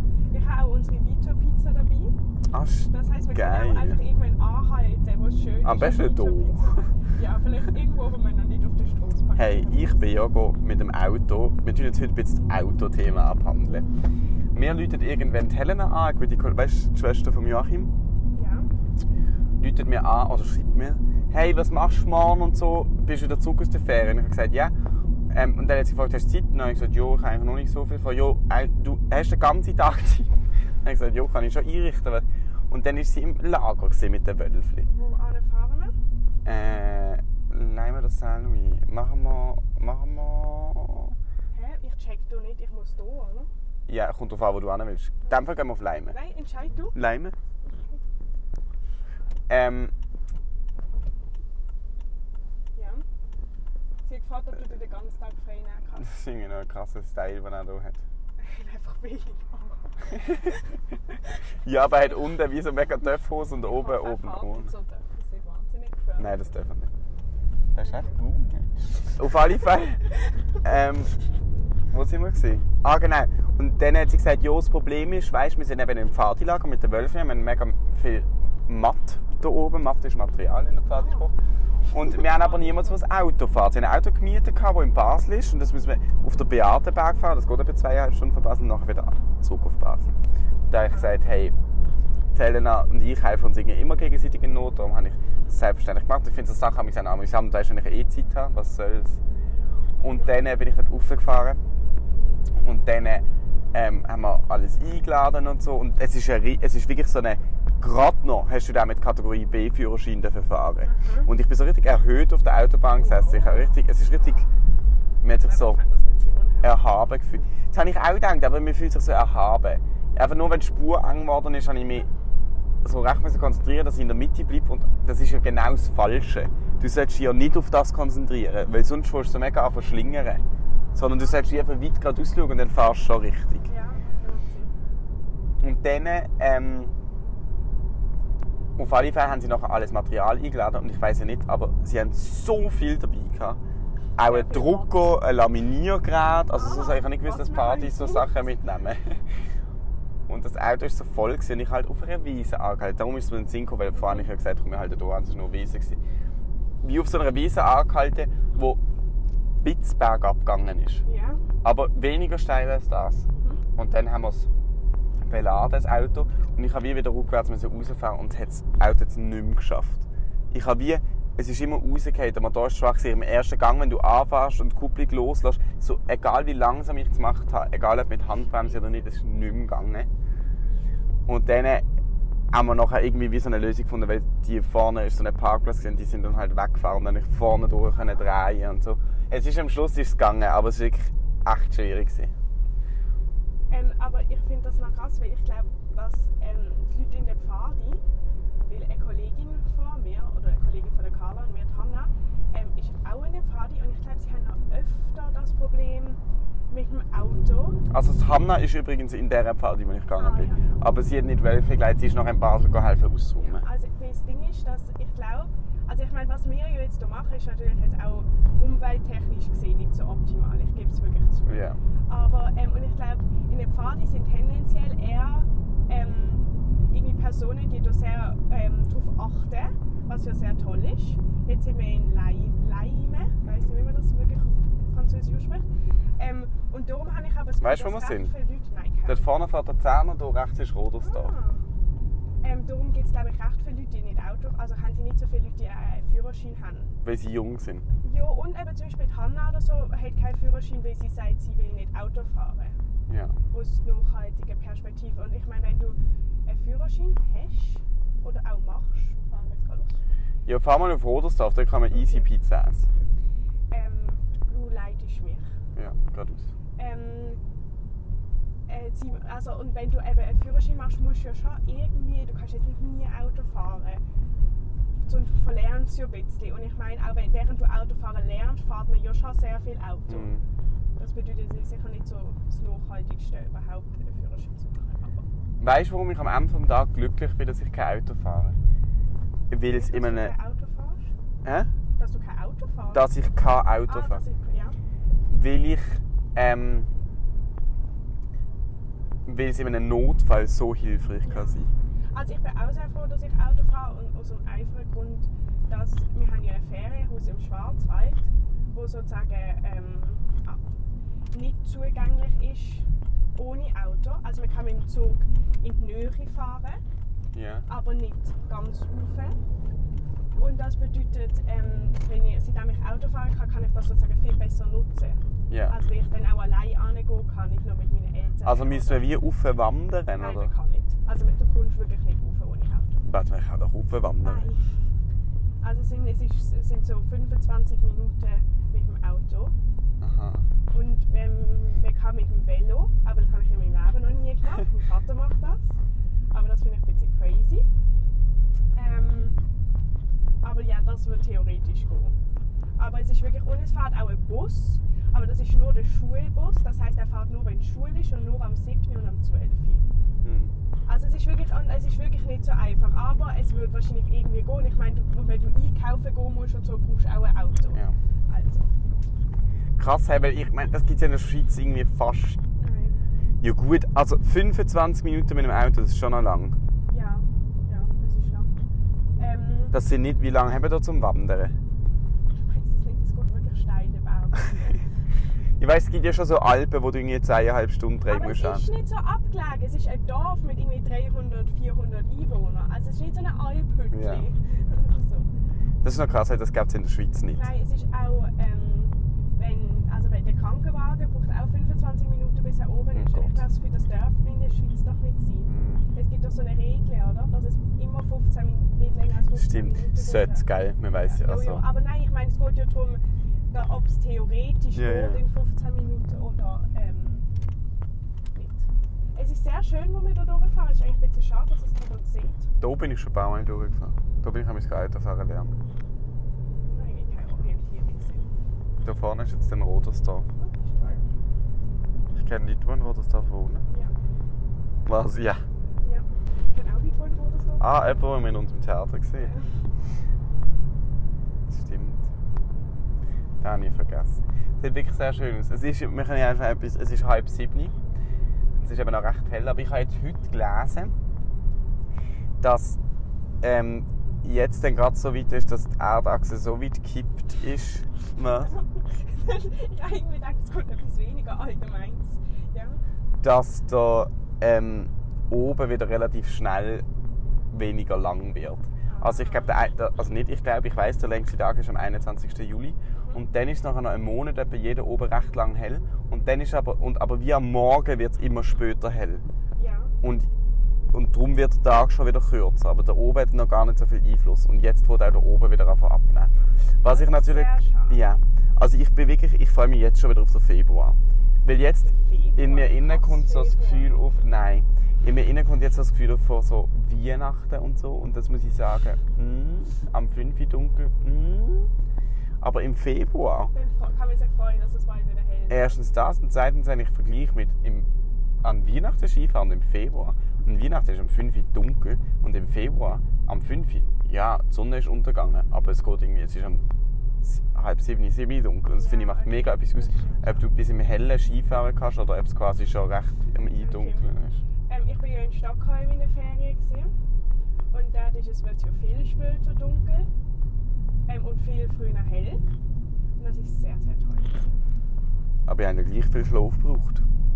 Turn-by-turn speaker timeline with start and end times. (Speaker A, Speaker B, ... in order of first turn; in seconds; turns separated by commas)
Speaker A: 0.3-2.2, Speaker B: 2.5-4.0, Speaker A: 2.9-10.1, Speaker B: 5.6-6.8, Speaker B: 9.4-13.9, Speaker B: 14.5-17.9, Speaker A: 18.3-18.7, Speaker B: 19.6-24.7, Speaker B: 25.3-30.3, Speaker B: 30.8-34.9, Speaker A: 34.9-36.0, Speaker B: 36.5-41.1, Speaker A: 41.5-43.5, Speaker B: 43.9-46.2, Speaker A: 46.1-47.0, Speaker B: 46.9-47.4, Speaker A: 47.7-48.0, Speaker B: 49.5-49.9, Speaker A: 52.8-53.0, Speaker A: 54.1-56.1, Speaker B: 56.0-58.0, Speaker A: 58.4-60.6, Speaker B: 61.6-64.7, Speaker A: 63.6-66.5, Speaker B: 66.2-66.9, Speaker B: 67.7-70.0, Speaker A: 67.8-68.2, Speaker B: 70.6-71.1, Speaker B: 71.9-81.3, Speaker A: 81.0-81.3, Speaker A: 81.9-83.0, Speaker B: 81.9-90.1, Speaker B: 90.7-91.5, Speaker A: 90.8-91.2, Speaker B: 92.3-99.2, Speaker B: 100.0-101.6, Speaker A: 100.1-100.3, Speaker B: 102.6-114.5, Speaker A: 110.9-111.3, Speaker A: 112.9-113.7, Speaker B: 115.2-115.8, Speaker A: 115.4-116.8, Speaker B: 116.6-122.1, Speaker B: 122.8-130.4, Speaker B: 130.9-133.7, Speaker A: 131.1-131.5, Speaker A: 133.7-134.7, Speaker B: 135.6-136.9, Speaker B: 138.8-143.6, Speaker B: 144.2-149.2, Speaker A: 144.2-144.9, Speaker A: 146.5-148.3, Speaker B: 150.3-156.0, Speaker A: 154.0-154.3, Speaker B: 156.8-158.8, Speaker B: 159.6-161.0, Speaker A: 161.1-161.4, Speaker B: 161.6-163.2, Speaker A: 163.3-163.6, Speaker B: 163.8-164.5, Speaker B: 165.2-180.1, Speaker B: 181.3-181.8, Speaker B: 182.5-192.3, Speaker A: 193.7-198.0, Speaker A: 198.7-207.8, Speaker B: 207.9-213.7, Speaker A: 210.2-210.8, Speaker A: 213.4-235.7, Speaker B: 221.5-221.8, Speaker A: 236.2-239.3, Speaker B: 237.6-238.3, Speaker B: 239.1-241.3, Speaker A: 241.0-241.6, Speaker A: 242.4-246.9, Speaker B: 247.0-247.8, Speaker A: 248.0-252.8, Speaker B: 253.1-253.4, Speaker A: 253.5-260.0, Speaker B: 260.5-262.9, Speaker A: 261.9-262.3, Speaker A: 263.7-265.5, Speaker B: 265.8-266.5, Speaker A: 266.8-267.4, Speaker A: 268.7-274.0, Speaker A: 275.1-280.3, Speaker B: 280.1-280.4, Speaker A: 281.0-285.3, Speaker B: 285.6-288.6, Speaker B: 289.5-290.3, Speaker A: 289.7-291.1, Speaker B: 291.4-291.7, Speaker A: 292.0-293.1, Speaker B: 292.9-294.2, Speaker A: 293.9-294.8, Speaker B: 295.3-296.9, Speaker B: 299.3-301.7, Speaker A: 301.2-301.6, Speaker A: 302.1-310.6, Speaker A: 311.3-316.8, Speaker B: 317.3-317.7, Speaker A: 317.7-319.4, Speaker A: 320.4-329.1, Speaker B: 325.5-325.8, Speaker B: 328.4-330.5, Speaker A: 330.2-333.1, Speaker B: 333.0-334.5, Speaker A: 334.2-334.6, Speaker A: 335.6-339.5, Speaker B: 340.0-340.5, Speaker A: 340.7-345.8, Speaker A: 346.3-347.7, Speaker A: 348.8-349.4, Speaker A: 350.4-352.1, Speaker A: 352.8-359.9, Speaker B: 360.2-360.5, Speaker A: 360.9-368.7, Speaker B: 369.8-372.4, Speaker A: 372.6-373.0, Speaker B: 373.4-376.6, Speaker A: 376.9-378.5, Speaker A: 379.2-379.8, Speaker B: 379.7-381.6, Speaker A: 382.3-384.9, Speaker B: 385.6-388.7, Speaker A: 388.1-395.3, Speaker B: 393.9-394.2, Speaker B: 395.8-397.5, Speaker A: 397.3-410.5, Speaker B: 402.9-403.4, Speaker B: 405.5-405.9, Speaker B: 409.4-411.6, Speaker A: 411.0-417.3, Speaker B: 414.7-415.2, Speaker A: 418.4-422.5, Speaker B: 422.6-425.6, Speaker A: 426.7-428.3, Speaker B: 428.8-430.3, Speaker A: 430.4-431.1, Speaker B: 432.1-433.6, Speaker A: 433.7-433.9, Speaker B: 434.9-435.4, Speaker A: 435.8-437.8, Speaker B: 437.6-439.3, Speaker A: 439.2-439.5, Speaker B: 441.5-442.1, Speaker B: 443.4-447.8, Speaker B: 448.6-450.9, Speaker B: 452.4-452.8, Speaker B: 453.4-458.5, Speaker A: 458.5-462.8, Speaker B: 463.2-466.9, Speaker B: 467.5-479.2, Speaker A: 468.9-469.6, Speaker A: 472.9-473.2, Speaker A: 479.6-479.9, Speaker B: 480.0-480.3, Speaker B: 480.9-501.7, Speaker A: 486.9-488.0, Speaker A: 491.8-493.9, Speaker B: 502.4-503.5, Speaker A: 503.5-505.8, Speaker B: 505.5-507.9, Speaker B: 508.4-516.6, Speaker B: 517.2-524.4, Speaker A: 518.8-520.5, Speaker A: 523.6-524.1, Speaker A: 524.7-526.9, Speaker A: 527.7-530.1, Speaker A: 531.1-532.5, Speaker A: 533.2-534.6, Speaker B: 535.5-537.0